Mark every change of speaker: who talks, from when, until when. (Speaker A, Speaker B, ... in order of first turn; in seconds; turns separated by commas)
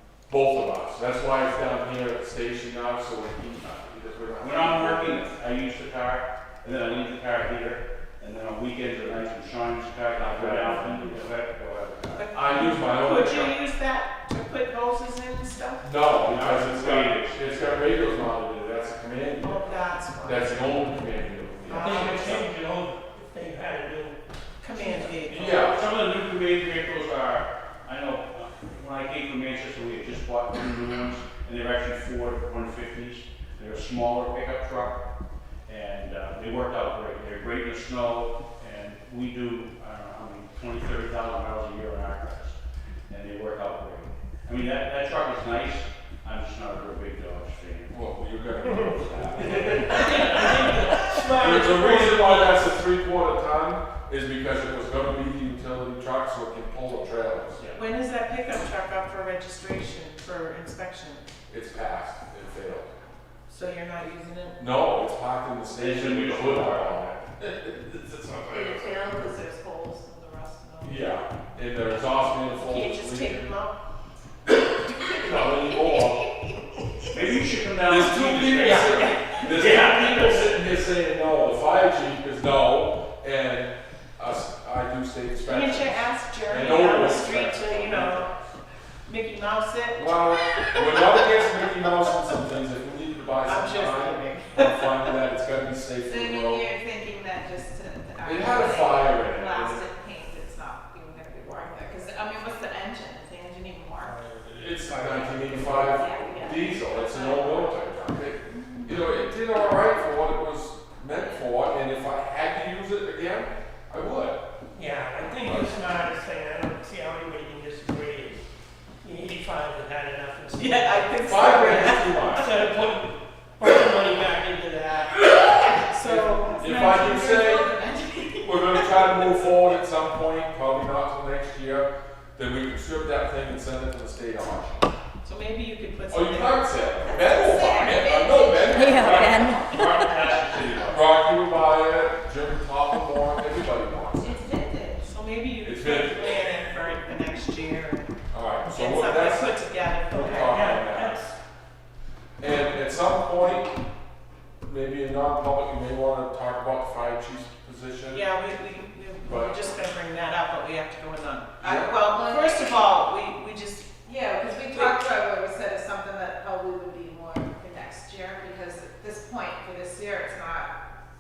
Speaker A: 0.3-5.4, Speaker B: 4.4-12.3, Speaker A: 10.2-11.2, Speaker C: 12.2-15.9, Speaker A: 12.3-13.6, Speaker A: 15.8-22.5, Speaker B: 16.2-18.0, Speaker C: 19.4-20.7, Speaker C: 21.7-22.4, Speaker D: 21.8-24.2, Speaker C: 24.6-25.5, Speaker D: 24.8-25.2, Speaker A: 25.3-25.9, Speaker B: 25.3-35.0, Speaker B: 35.7-42.6, Speaker B: 43.1-47.9, Speaker A: 47.9-57.6, Speaker B: 49.1-50.4, Speaker D: 50.0-52.6, Speaker C: 57.7-61.2, Speaker A: 61.5-62.9, Speaker C: 63.5-64.6, Speaker A: 64.6-69.0, Speaker B: 65.7-67.0, Speaker E: 68.5-71.2, Speaker A: 70.8-73.5, Speaker C: 72.5-73.8, Speaker C: 74.8-75.4, Speaker A: 75.2-76.3, Speaker B: 77.1-80.6, Speaker A: 77.8-88.4, Speaker C: 78.6-79.2, Speaker C: 85.4-88.3, Speaker C: 89.1-91.1, Speaker A: 90.0-96.7, Speaker C: 93.4-95.2, Speaker E: 96.1-104.1, Speaker A: 98.2-99.8, Speaker D: 104.0-106.0, Speaker A: 104.5-114.4, Speaker E: 105.9-107.8, Speaker E: 108.5-108.9, Speaker E: 111.1-111.4, Speaker D: 114.7-118.4, Speaker D: 119.0-121.0, Speaker C: 120.5-122.3, Speaker A: 121.2-122.5, Speaker D: 122.3-125.3, Speaker C: 125.5-127.2, Speaker A: 126.0-127.7, Speaker E: 126.2-129.5, Speaker A: 128.4-134.9, Speaker C: 135.2-137.1, Speaker A: 136.1-139.6, Speaker E: 137.4-139.6, Speaker B: 139.0-141.0, Speaker A: 140.9-144.4, Speaker E: 144.2-145.1, Speaker C: 145.0-148.1, Speaker A: 145.6-146.5, Speaker A: 148.3-149.5, Speaker C: 148.6-150.7, Speaker A: 150.1-151.2, Speaker D: 150.1-151.3, Speaker A: 152.4-153.8, Speaker A: 154.6-158.2, Speaker C: 158.1-164.0, Speaker A: 159.2-159.6, Speaker A: 161.6-161.9, Speaker E: 161.6-163.0, Speaker E: 164.1-170.7, Speaker C: 164.7-165.0